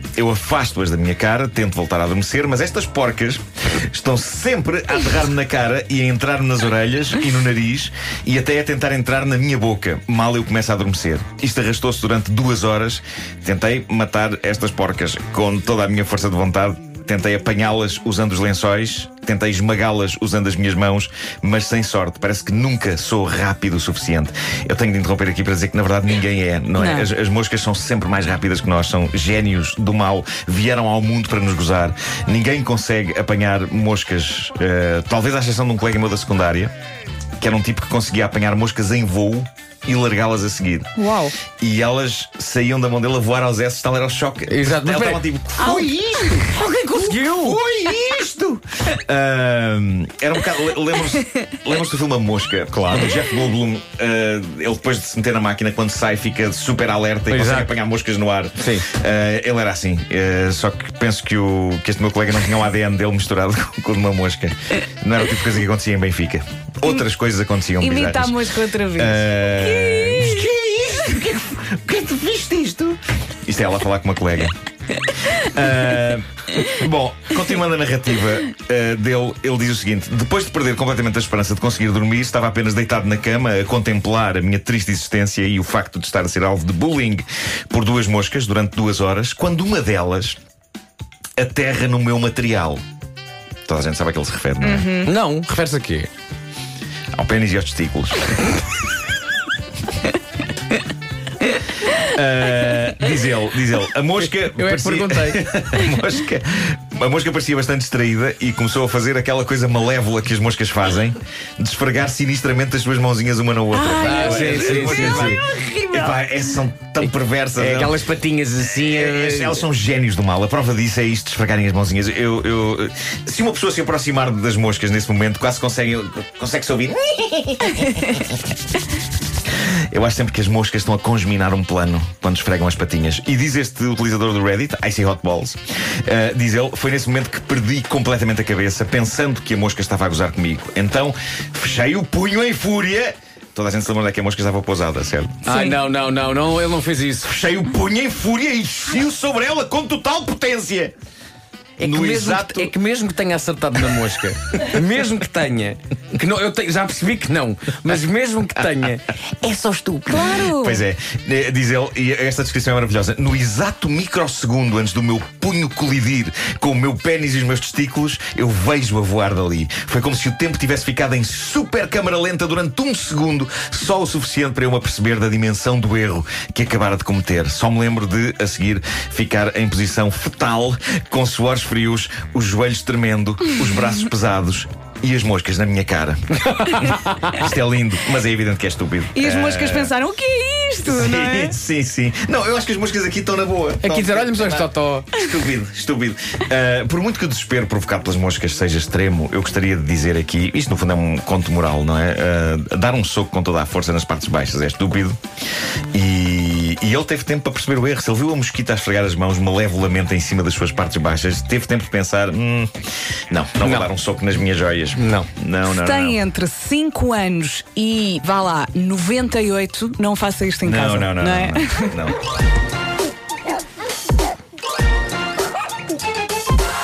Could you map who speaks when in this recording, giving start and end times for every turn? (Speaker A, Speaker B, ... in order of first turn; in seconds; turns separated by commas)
Speaker A: 0.2-36.7, Speaker B: 26.8-27.1, Speaker A: 37.4-40.9, Speaker B: 41.0-41.3, Speaker A: 41.6-74.5, Speaker C: 44.5-47.6, Speaker C: 52.7-53.1, Speaker C: 57.3-57.7, Speaker C: 58.6-58.9, Speaker B: 67.8-70.5, Speaker A: 75.1-90.4, Speaker A: 91.4-92.8, Speaker A: 93.7-94.9, Speaker B: 94.6-95.1, Speaker C: 95.0-96.1, Speaker A: 97.1-98.4, Speaker A: 102.0-118.0, Speaker C: 104.2-105.8, Speaker B: 113.7-116.1, Speaker C: 114.0-115.4, Speaker C: 117.0-119.7, Speaker A: 118.6-128.4, Speaker A: 129.9-145.4, Speaker B: 145.4-145.8, Speaker C: 145.4-147.3, Speaker A: 147.2-150.9, Speaker C: 151.8-160.5, Speaker A: 151.8-152.7, Speaker B: 160.1-160.8, Speaker A: 160.4-186.2, Speaker C: 186.4-187.4, Speaker A: 187.3-189.9, Speaker B: 189.1-191.5, Speaker A: 190.8-205.2, Speaker C: 193.8-195.2, Speaker A: 205.9-212.7, Speaker A: 213.3-216.2, Speaker C: 213.6-213.9, Speaker C: 214.9-215.3, Speaker B: 215.7-222.1, Speaker A: 220.6-222.2